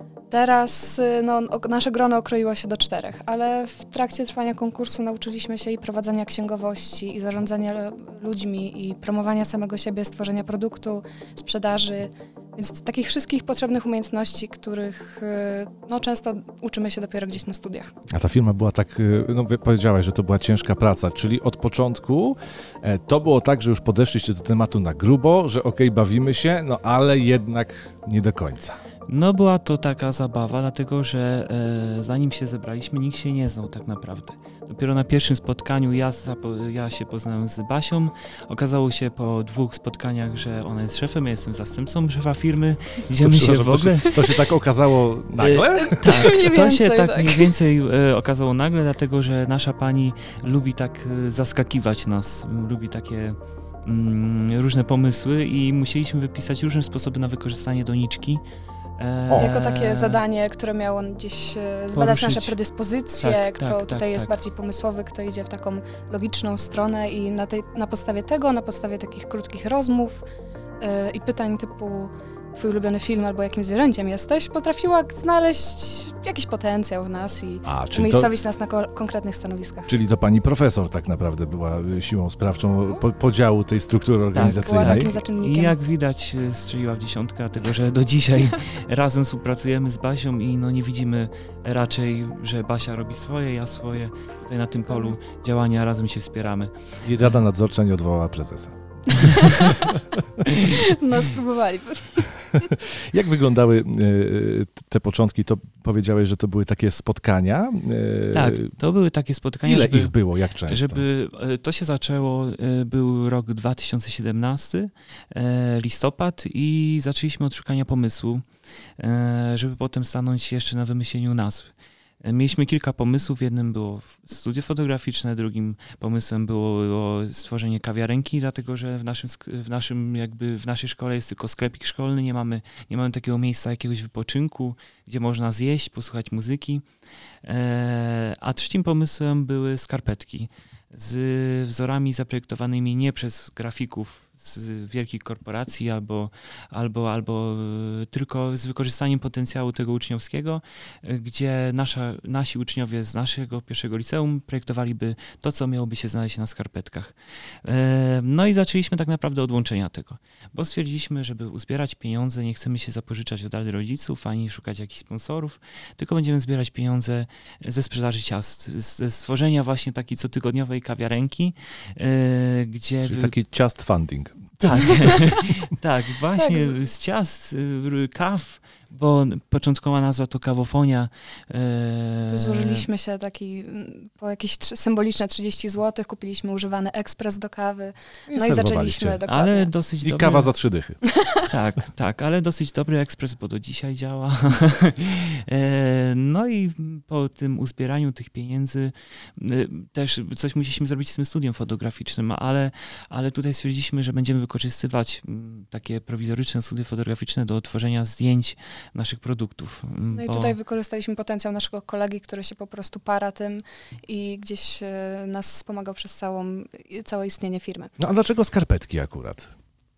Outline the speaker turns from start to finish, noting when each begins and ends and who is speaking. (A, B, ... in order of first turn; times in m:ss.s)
0:00.3-0:17.9 A
0:18.1-0:28.8 B
0:29.1-0:44.3 C
0:43.1-0:46.0 B
0:45.4-0:58.4 C
0:45.9-0:47.5 A
0:59.0-1:00.2 C
0:59.4-1:10.2 A
1:01.9-1:02.5 C
1:03.2-1:04.3 C
1:10.8-1:19.9 A
1:17.6-1:18.3 B
1:19.9-1:25.1 B
1:24.3-1:37.4 C
1:24.3-1:25.8 A
1:34.9-1:35.2 A
1:37.0-1:39.9 B
1:40.7-1:42.7 A
1:42.5-1:48.7 B
1:48.3-1:58.4 C
1:49.6-1:51.0 B
1:59.0-2:01.7 C
2:02.2-2:16.8 C
2:17.4-2:53.4 C
2:53.0-2:55.2 B
2:54.6-3:02.9 C
2:56.4-2:56.8 A
3:02.3-3:09.7 A
3:08.3-3:09.2 B
3:09.2-3:10.5 C
3:10.0-3:11.0 B
3:11.2-3:11.4 A
3:11.4-3:30.6 C
3:30.1-3:37.9 A
3:38.0-3:39.5 B